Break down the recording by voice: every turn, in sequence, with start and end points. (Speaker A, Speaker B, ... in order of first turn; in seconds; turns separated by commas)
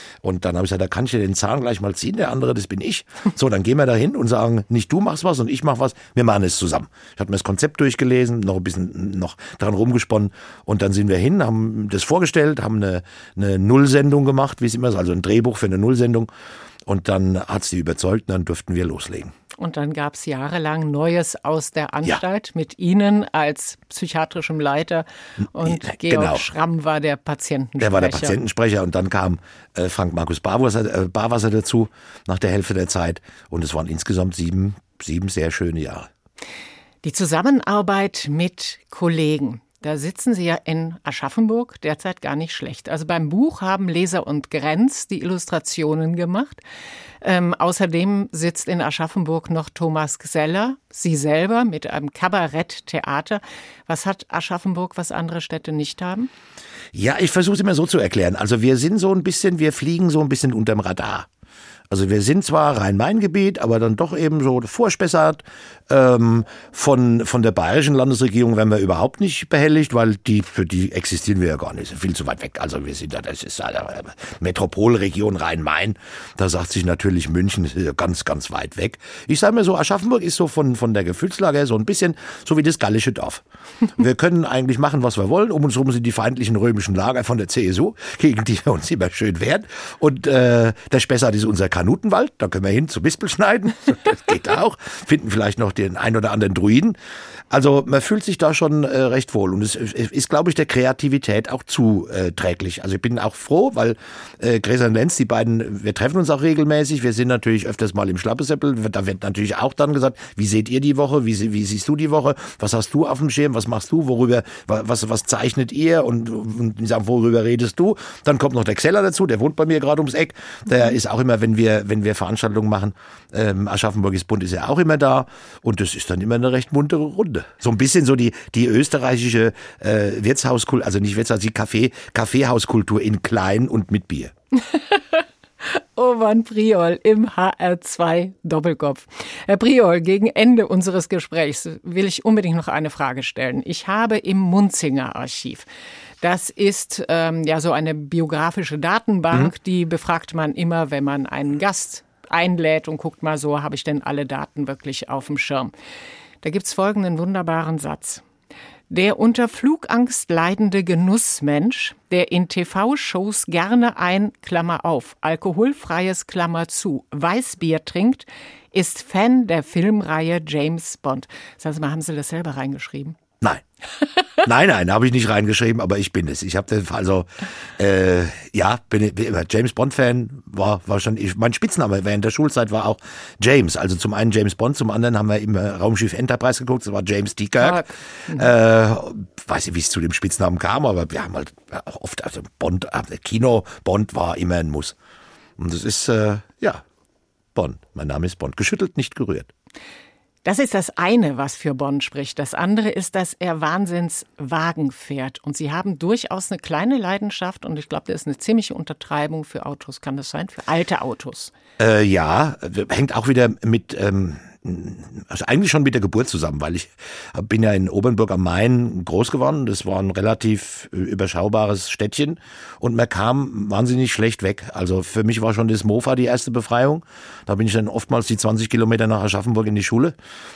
Speaker A: 0.2-16.3, Speaker A: 16.9-19.3, Speaker B: 19.6-28.4, Speaker A: 25.6-26.4, Speaker A: 27.8-36.1, Speaker B: 37.0-46.6, Speaker B: 47.2-56.3, Speaker A: 56.9-61.3, Speaker A: 61.9-83.4, Speaker A: 84.0-97.0, Speaker A: 97.5-134.3, Speaker B: 134.7-145.7, Speaker B: 146.2-155.7, Speaker B: 156.4-158.2, Speaker B: 158.9-173.2, Speaker A: 174.4-194.9, Speaker B: 187.6-188.5, Speaker A: 195.6-196.8, Speaker A: 197.6-199.5, Speaker B: 200.4-211.5, Speaker A: 211.8-230.1